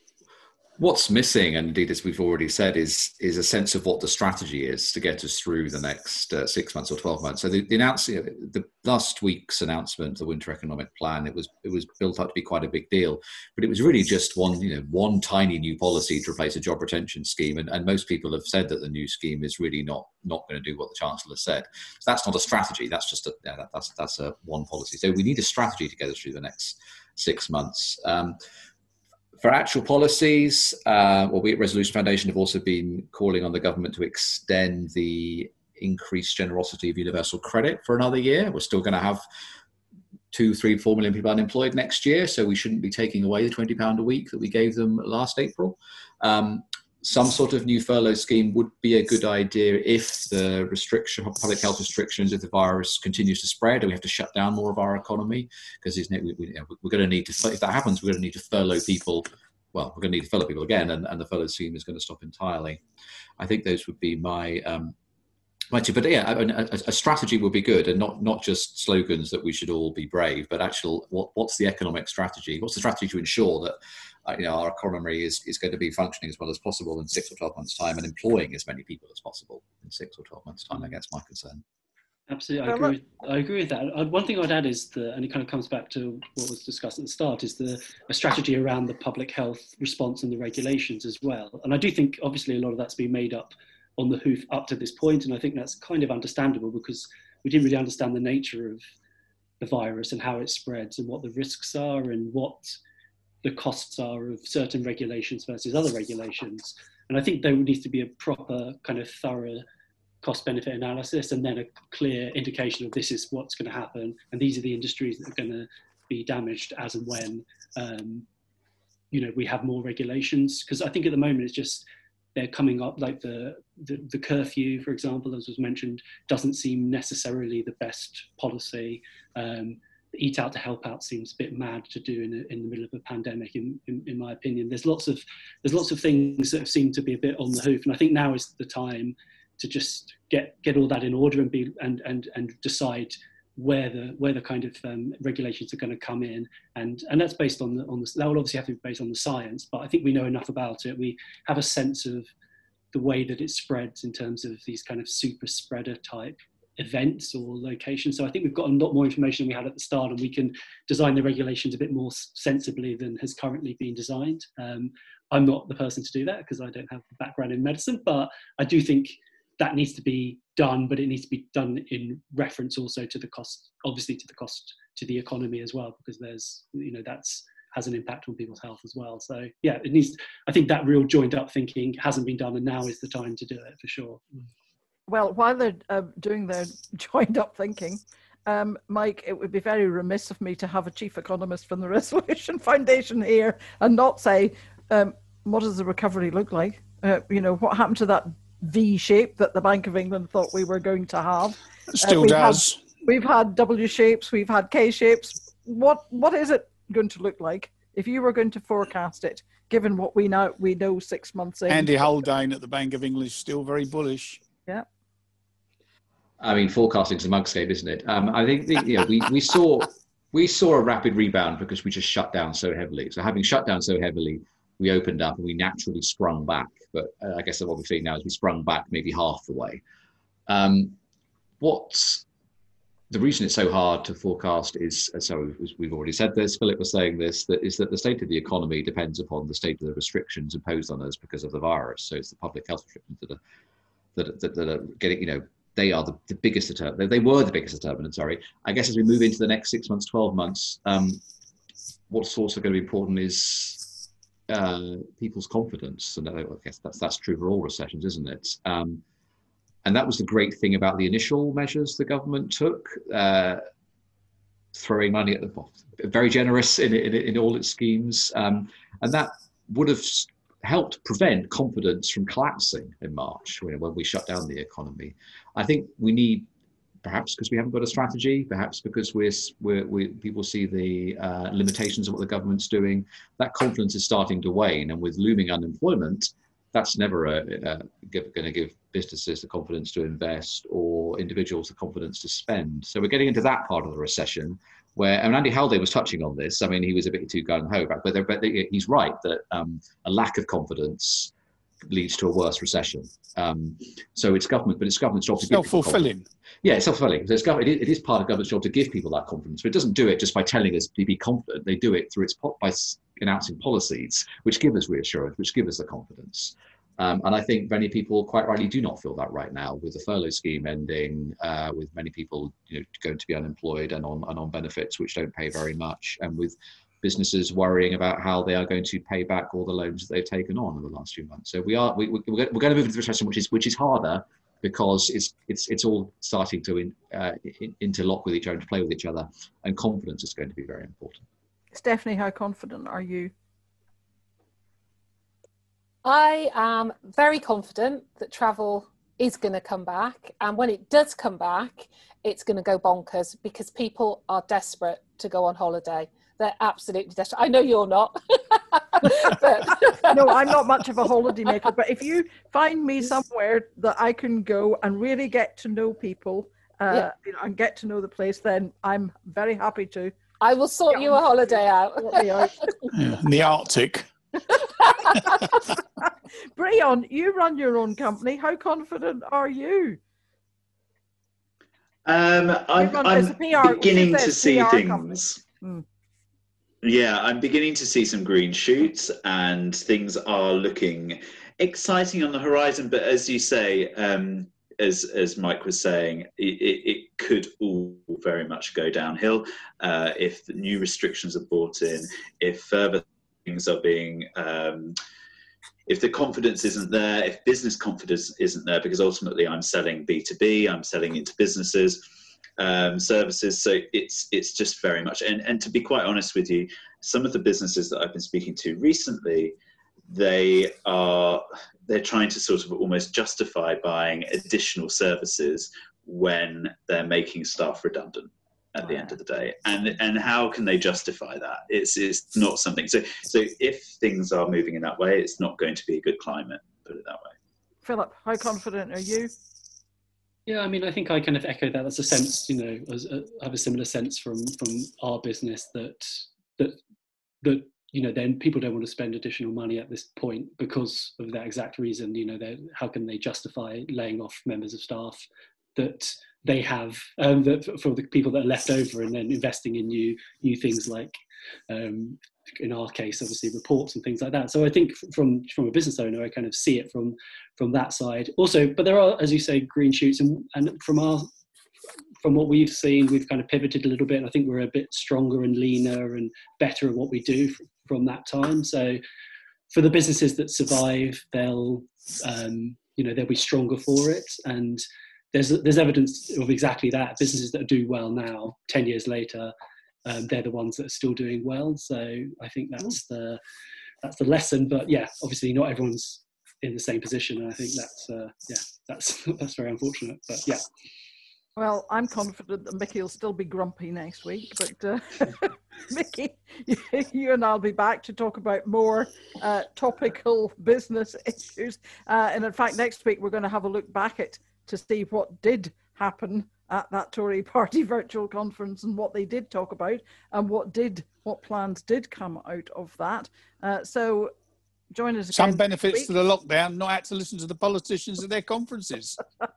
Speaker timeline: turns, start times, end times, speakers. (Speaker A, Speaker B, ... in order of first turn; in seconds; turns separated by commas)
Speaker A: 0.8-28.4, Speaker A: 29.4-39.2, Speaker A: 40.3-62.8, Speaker A: 63.4-64.9, Speaker A: 65.7-81.6, Speaker B: 82.3-98.8, Speaker C: 82.7-82.9, Speaker B: 99.6-102.8, Speaker B: 103.4-109.6, Speaker B: 110.2-118.2, Speaker B: 119.1-121.8, Speaker B: 122.3-152.3, Speaker B: 152.9-184.2, Speaker C: 185.1-211.9, Speaker D: 201.9-202.8, Speaker D: 211.7-214.4, Speaker A: 216.4-229.8, Speaker A: 230.5-231.0, Speaker A: 231.6-232.2, Speaker A: 233.1-243.4, Speaker A: 244.2-251.2, Speaker A: 252.1-253.8, Speaker A: 254.5-259.0, Speaker A: 259.8-263.6, Speaker A: 264.7-276.5, Speaker A: 277.0-301.3, Speaker A: 301.9-306.0, Speaker D: 305.4-306.2, Speaker A: 306.6-341.2, Speaker C: 341.7-343.3, Speaker E: 346.0-360.2, Speaker C: 359.2-370.1, Speaker E: 370.4-372.8, Speaker C: 370.9-372.9, Speaker D: 372.9-374.1, Speaker C: 374.6-380.0, Speaker E: 374.9-375.3, Speaker F: 382.0-385.4, Speaker C: 382.8-385.8, Speaker F: 386.8-404.9, Speaker F: 405.9-412.0, Speaker F: 412.6-419.6, Speaker F: 420.1-437.3, Speaker C: 428.8-429.1, Speaker C: 437.8-439.3, Speaker B: 440.5-446.8, Speaker B: 447.4-455.2, Speaker B: 455.8-461.1, Speaker B: 461.7-471.3, Speaker B: 472.2-479.0, Speaker B: 479.7-489.5, Speaker B: 490.1-493.4, Speaker B: 494.0-500.6, Speaker C: 501.6-524.3, Speaker C: 524.9-526.1, Speaker D: 525.3-529.2